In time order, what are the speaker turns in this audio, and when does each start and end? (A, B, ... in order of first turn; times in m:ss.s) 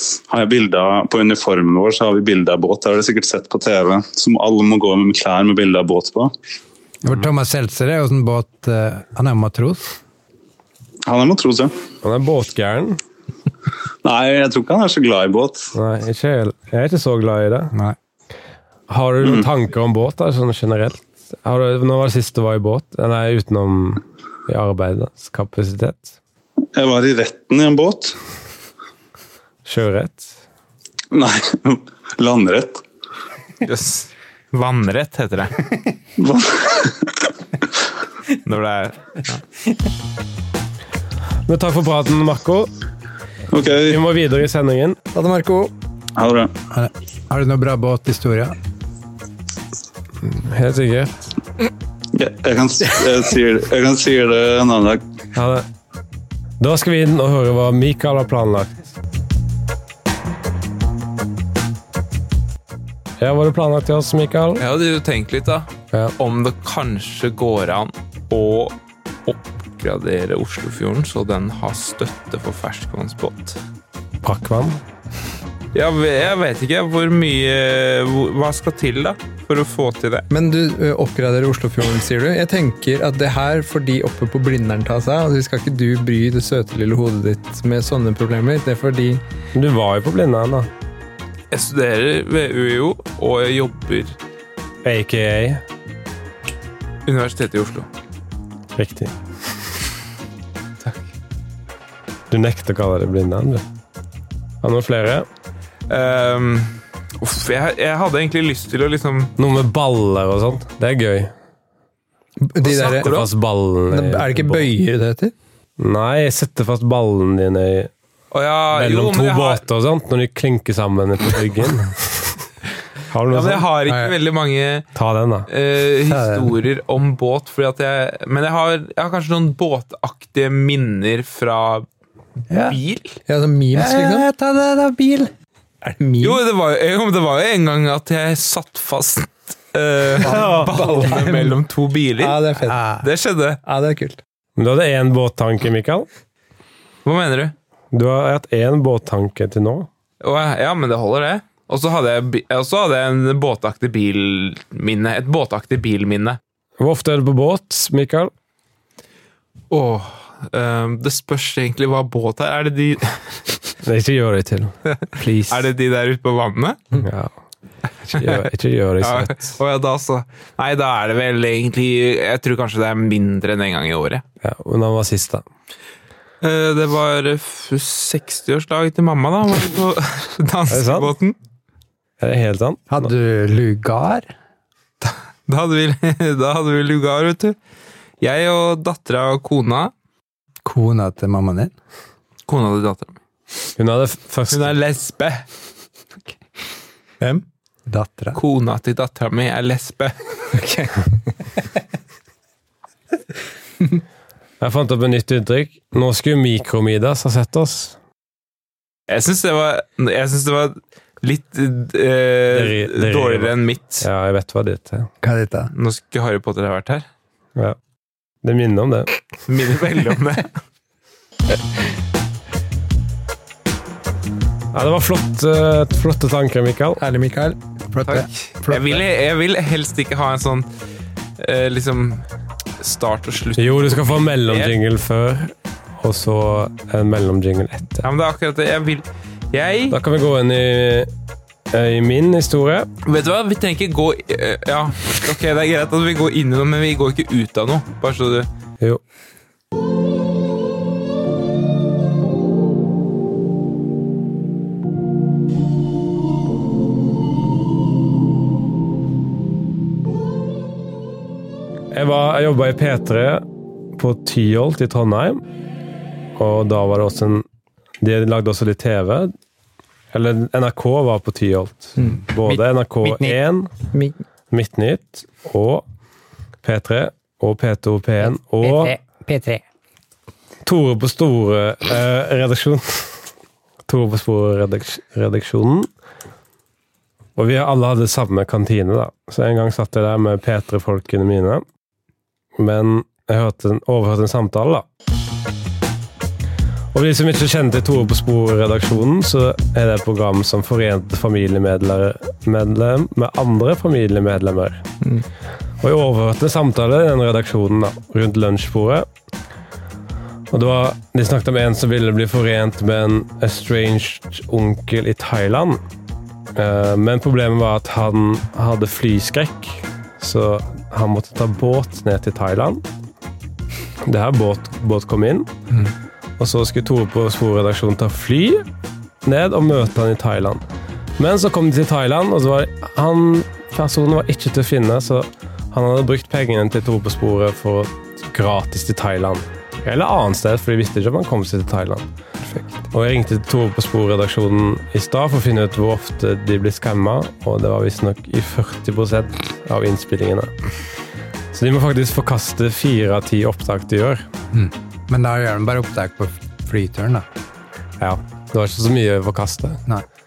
0:00.3-0:06.3 A
0:07.0-0:09.9 B
0:11.0-0:11.7 A
0:12.0-0:13.0 C
0:14.0-0:15.7 A
0:15.7-0:17.7 C
0:18.9-0:26.1 C
0:26.7-0:28.2 A
0:29.6-0:30.3 C
0:31.1-0:32.8 A
0:33.6-0:35.6 D
0:36.2-0:37.3 A
0:38.3-0:39.4 D
0:41.5-0:42.7 C
0:43.5-0:44.0 A
0:43.8-0:45.0 C
0:45.1-0:45.7 E
0:46.2-0:46.5 A
0:46.7-0:48.5 B
0:50.2-0:51.2 C
0:52.1-0:55.0 A
0:55.3-0:55.6 C
0:56.6-0:58.8 C
1:03.2-1:04.6 C
1:04.6-1:08.7 D
1:09.2-1:13.6 D
1:14.2-1:14.8 C
1:15.7-1:20.2 D
1:20.3-1:29.2 E
1:29.5-1:30.7 C
1:31.5-1:34.2 D
1:34.8-1:35.6 C
1:37.0-1:37.9 D
1:38.8-1:39.1 C
1:42.3-1:43.6 C
1:44.6-1:45.3 C
1:45.9-1:49.3 D
1:49.4-1:51.3 C
1:52.4-1:53.2 E
1:52.6-1:54.7 C
1:52.7-1:53.3 D
1:53.9-1:55.3 E
1:55.8-1:57.9 C
1:58.3-1:59.6 D
1:58.7-2:02.4 C
2:03.1-2:03.6 C
2:03.3-2:04.9 D
2:03.9-2:04.1 B
2:04.9-2:05.5 C
2:05.5-2:11.8 D
2:06.1-2:06.5 B
2:12.5-2:12.8 B
2:12.6-2:13.2 D
2:13.3-2:14.2 E
2:13.7-2:15.3 B
2:15.8-2:16.4 E
2:16.2-2:22.4 D
2:20.3-2:20.7 C
2:20.4-2:21.6 E
2:22.2-2:22.8 E
2:22.7-2:23.0 B
2:23.0-2:23.6 D
2:23.6-2:24.2 E
2:24.6-2:26.1 C
2:27.0-2:27.5 D
2:27.9-2:29.9 C
2:30.2-2:36.4 D
2:36.8-2:38.3 C
2:39.7-2:43.5 D
2:43.8-2:45.6 C
2:45.5-2:47.0 D
2:47.0-2:47.3 C
2:48.1-2:49.5 C
2:48.1-2:48.4 D
2:49.0-2:54.2 D
2:54.4-2:55.4 C
2:56.4-3:01.4 D
3:00.7-3:01.1 C
3:02.2-3:03.1 C
3:02.9-3:04.3 B
3:05.0-3:07.6 D
3:08.2-3:09.9 D
3:10.6-3:11.7 B
3:12.5-3:13.2 D
3:13.8-3:14.7 C
3:14.5-3:15.4 D
3:17.9-3:18.4 B
3:18.3-3:20.2 D
3:20.5-3:21.0 E
3:24.6-3:28.0 C
3:29.1-3:34.1 D
3:32.5-3:35.1 C
3:35.2-3:35.7 B
3:35.7-3:37.0 D
3:38.4-3:39.1 C
3:39.5-3:40.5 D
3:44.7-3:47.0 C
3:47.0-3:47.6 E
3:47.9-3:49.0 B
3:48.0-3:50.7 D
3:51.4-3:52.2 D
3:52.8-3:54.7 D
3:53.6-3:58.1 C
3:58.0-4:00.0 D
3:59.9-4:01.1 C
4:01.7-4:02.9 C
4:03.0-4:08.5 D
4:21.9-4:23.4 C
4:24.0-4:25.4 C
4:26.4-4:27.4 C
4:28.0-4:29.3 C
4:30.1-4:33.7 C
4:32.0-4:32.2 E
4:33.9-4:34.2 E
4:34.5-4:35.8 C
4:36.6-4:39.0 C
4:38.6-4:39.6 B
4:40.6-4:43.1 C
4:43.8-4:45.9 C
4:47.4-4:51.6 C
4:52.6-4:54.8 C
4:56.9-5:04.8 C
5:05.8-5:09.1 C
5:10.5-5:15.8 C
5:16.5-5:22.8 C
5:24.0-5:25.5 C
5:26.4-5:28.6 C
5:29.2-5:30.6 C
5:31.2-5:42.1 C
5:42.9-5:50.5 C
5:51.5-5:54.2 C
5:54.5-5:57.2 B
5:58.0-5:59.8 C